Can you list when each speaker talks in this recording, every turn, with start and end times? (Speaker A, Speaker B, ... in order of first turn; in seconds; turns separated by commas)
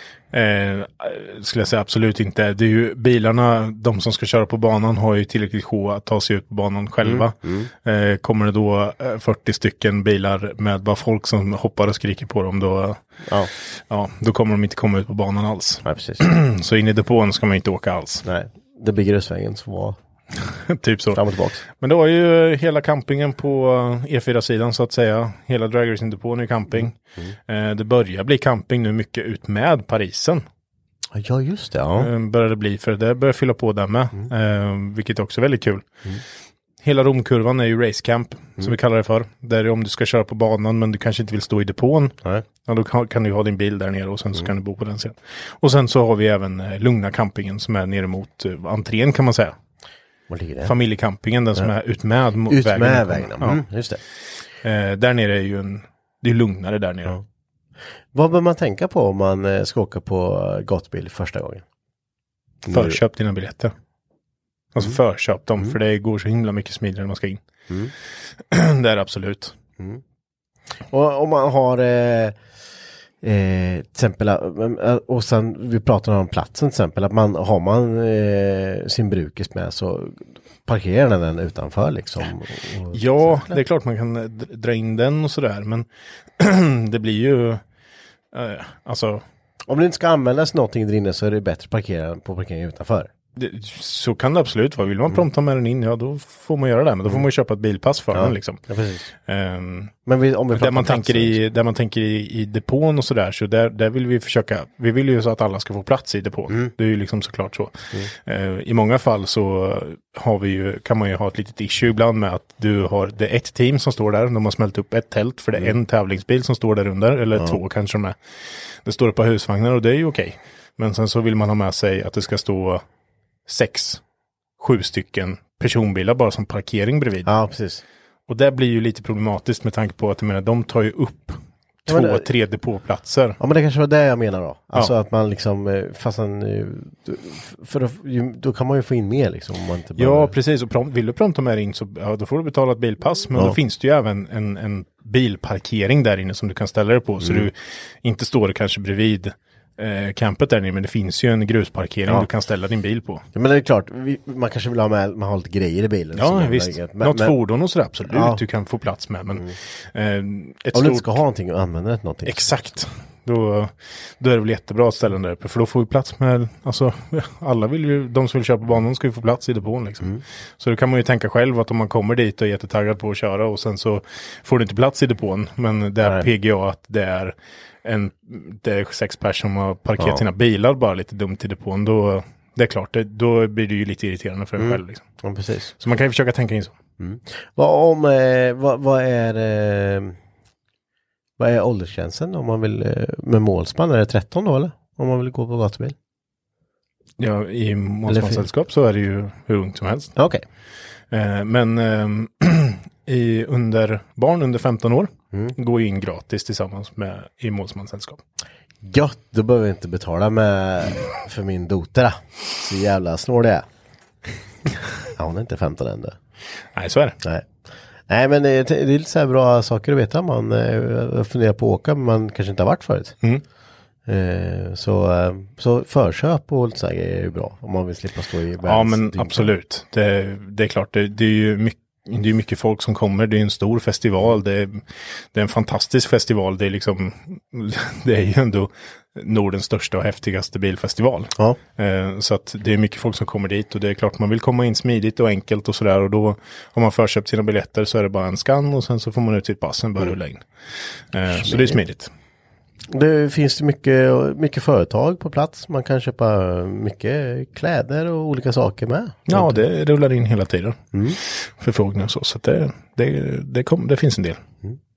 Speaker A: 0.3-13.0, Speaker B: 7.0-7.7, Speaker B: 13.2-13.5, Speaker A: 13.7-18.2, Speaker B: 15.8-16.3, Speaker B: 18.2-19.9, Speaker A: 20.4-26.9, Speaker B: 21.1-21.6, Speaker B: 26.7-27.3, Speaker A: 27.5-30.4, Speaker B: 31.1-32.1, Speaker A: 31.9-35.9, Speaker A: 36.8-49.5, Speaker B: 50.3-50.7, Speaker A: 50.6-53.6, Speaker B: 52.5-54.0, Speaker A: 54.6-57.1, Speaker B: 58.1-61.6, Speaker B: 62.6-63.0, Speaker A: 62.7-63.7, Speaker A: 64.7-67.4, Speaker A: 68.5-69.5, Speaker B: 70.9-72.4, Speaker B: 73.2-83.6, Speaker A: 82.9-85.9, Speaker A: 86.4-87.6, Speaker A: 88.3-89.2, Speaker B: 89.7-93.1, Speaker A: 93.3-98.6, Speaker B: 98.1-99.1, Speaker A: 99.2-99.9, Speaker B: 100.0-101.4, Speaker A: 100.5-118.2, Speaker A: 118.8-122.8, Speaker A: 123.5-124.0, Speaker A: 124.6-127.3, Speaker B: 127.2-127.8, Speaker A: 128.3-133.4, Speaker B: 131.9-132.2, Speaker B: 133.4-140.3, Speaker A: 140.0-153.2, Speaker B: 147.2-147.5, Speaker B: 153.3-157.3, Speaker A: 156.1-161.2, Speaker B: 158.1-158.4, Speaker B: 160.7-162.6, Speaker A: 162.2-185.1, Speaker B: 180.0-180.2, Speaker B: 184.6-185.7, Speaker A: 185.8-186.7, Speaker B: 187.0-190.2, Speaker B: 191.4-195.9, Speaker A: 197.2-200.1, Speaker B: 198.1-198.4, Speaker B: 200.2-200.4, Speaker A: 201.1-208.2, Speaker B: 208.8-213.7, Speaker B: 215.1-216.2, Speaker A: 216.7-217.2, Speaker B: 217.2-217.5, Speaker B: 218.1-223.2, Speaker B: 224.1-229.5, Speaker A: 228.6-252.1, Speaker B: 251.3-251.8, Speaker B: 252.9-259.6, Speaker A: 259.3-264.4, Speaker B: 260.9-261.2